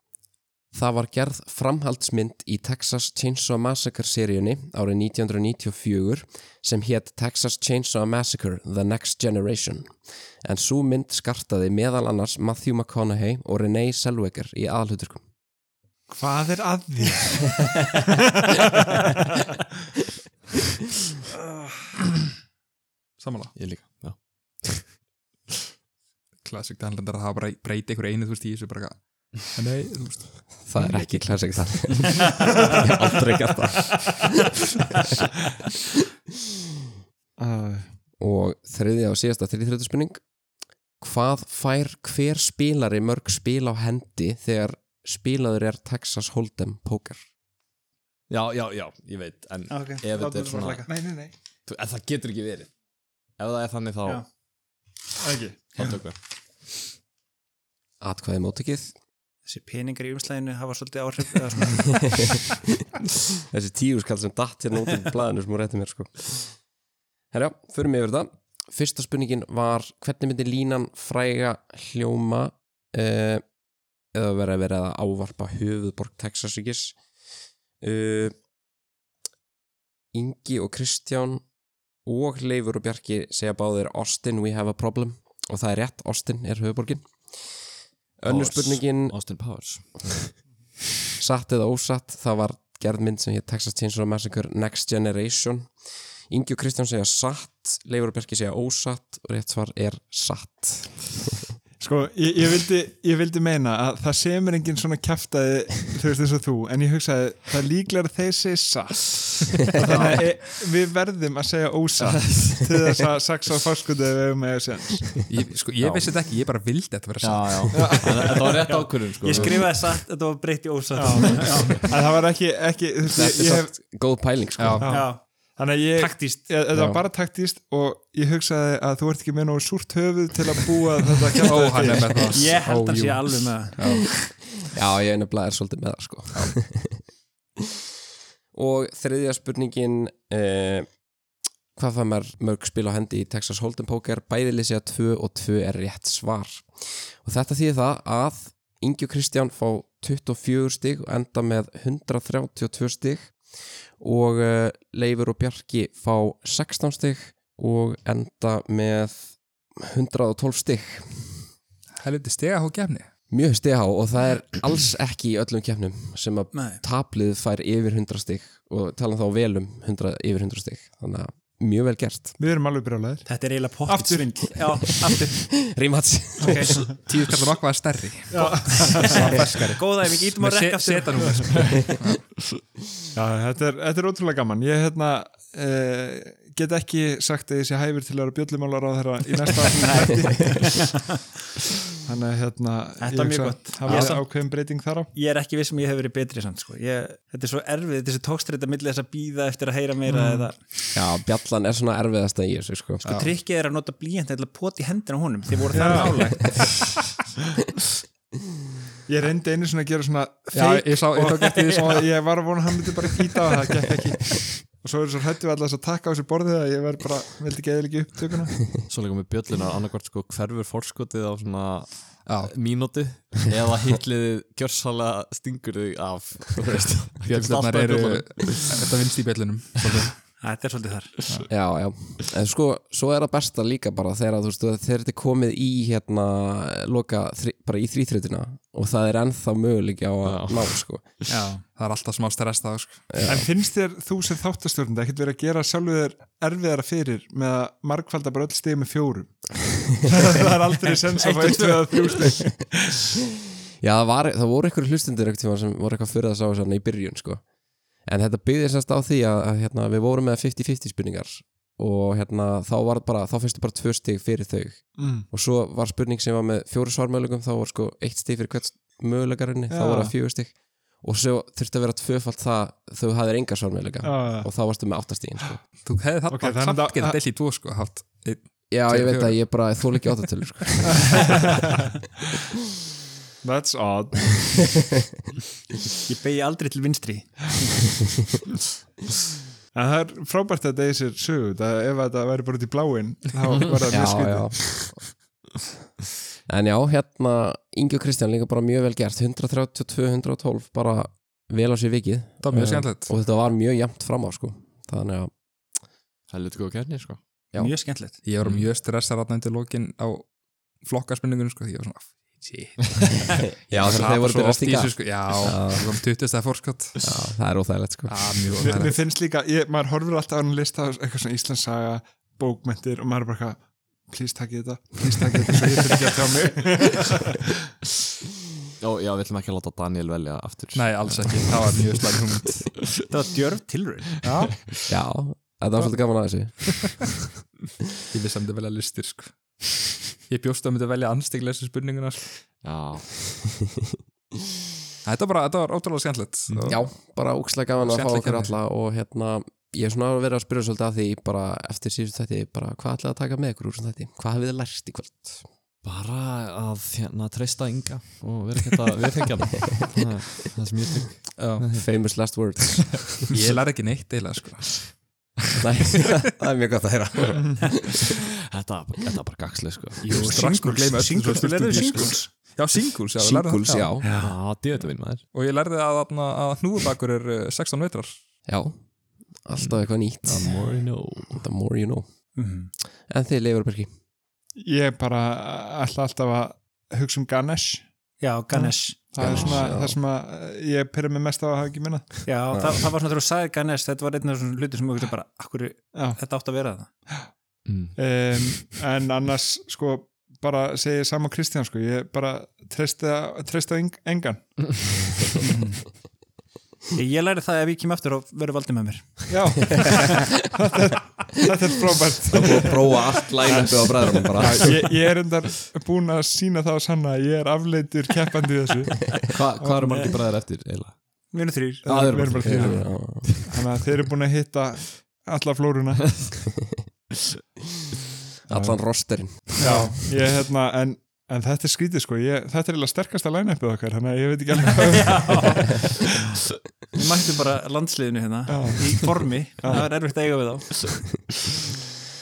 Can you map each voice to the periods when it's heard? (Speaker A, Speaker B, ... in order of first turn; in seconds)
Speaker A: 0.7-9.9, 10.4-15.2, 30.6-34.3, 38.2-40.2, 41.0-47.2, 58.0-58.9, 61.9-62.2, 63.3-66.5, 67.3-73.4, 74.1-77.0, 77.8-78.3, 80.1-81.4, 82.0-87.5, 88.2-89.2, 91.2-95.7, 96.3-101.4, 123.1-124.9, 126.7-127.0, 134.7-137.0, 138.5-140.9, 141.8-153.3, 154.0-161.5, 163.3-172.3, 175.6-176.8, 200.9-203.0, 231.5-241.0, 243.1-243.4, 253.8-257.4, 258.1-275.6, 278.7-281.4, 293.9-295.0, 296.5-305.3, 313.6-315.9, 317.0-318.7, 334.9-337.1, 346.7-355.5, 361.7-363.1, 365.6-368.1, 373.1-374.1, 378.4-378.8, 379.4-382.1, 383.1-383.9, 389.2-390.0, 392.5-392.8, 412.3-414.9, 422.4-423.4, 428.5-430.0
Speaker B: 16.1-18.9, 37.4-37.9, 50.8-51.3, 55.2-55.8, 101.8-115.2, 117.7-119.5, 120.9-123.8, 124.8-132.5, 172.4-173.3, 173.9-174.5, 178.3-179.3, 183.1-191.1, 192.0-195.1, 200.1-200.5, 205.7-206.4, 209.1-218.8, 243.2-253.0, 265.0-265.3, 269.7-270.1, 274.0-274.5, 276.3-277.2, 281.0-281.7, 283.4-284.7, 289.7-294.9, 318.6-327.5, 384.5-387.9, 388.5-392.2, 395.9-396.2, 397.9-404.5, 409.3-420.1, 421.8-426.3, 428.5-428.8, 429.6-435.8, 438.5-439.0, 439.6-439.9
Speaker C: 23.2-23.6, 26.4-31.3, 31.9-32.2, 115.3-118.2, 124.6-124.9, 131.4-134.1, 162.0-163.1, 177.1-182.3, 203.0-203.3, 210.5-212.1, 222.2-223.0, 227.3-230.2, 241.7-243.2, 275.8-280.3, 302.4-303.1, 308.2-317.1, 318.1-319.0, 330.7-332.9, 334.2-334.5, 338.1-342.4, 345.0-346.8, 347.8-348.5, 361.4-361.8, 363.1-365.0, 370.1-373.9, 375.3-378.2
Speaker D: 23.5-25.0, 48.3-50.9, 51.6-52.7, 53.4-54.2, 55.8-56.1, 88.2-90.4, 109.8-110.2, 112.0-112.7, 115.8-116.1, 117.2-119.8, 218.8-228.7, 240.2-241.2, 306.3-307.2, 308.4-308.7, 328.8-331.8, 342.6-343.4, 346.5-346.8, 355.8-361.9, 363.3-363.6, 368.1-370.4, 374.2-375.2, 379.6-381.4, 389.2-389.7, 397.6-397.9, 419.2-421.0, 421.9-423.6
Speaker E: 49.7-50.9, 59.5-62.3, 119.2-121.9, 124.8-126.5, 132.3-134.1, 166.5-166.8, 173.2-175.6, 176.4-176.9, 178.3-181.7, 189.8-191.0, 193.0-194.6, 195.1-200.6, 203.0-206.7, 211.2-211.9, 230.4-231.1, 241.3-241.6, 251.2-252.2, 286.1-287.8, 307.6-308.2, 333.1-334.1, 370.0-372.3, 374.0-374.3, 382.4-382.7, 388.2-389.0, 392.2-396.9, 405.4-405.8, 406.9-410.1, 421.3-421.9, 429.6-429.9, 434.9-436.0, 436.9-441.1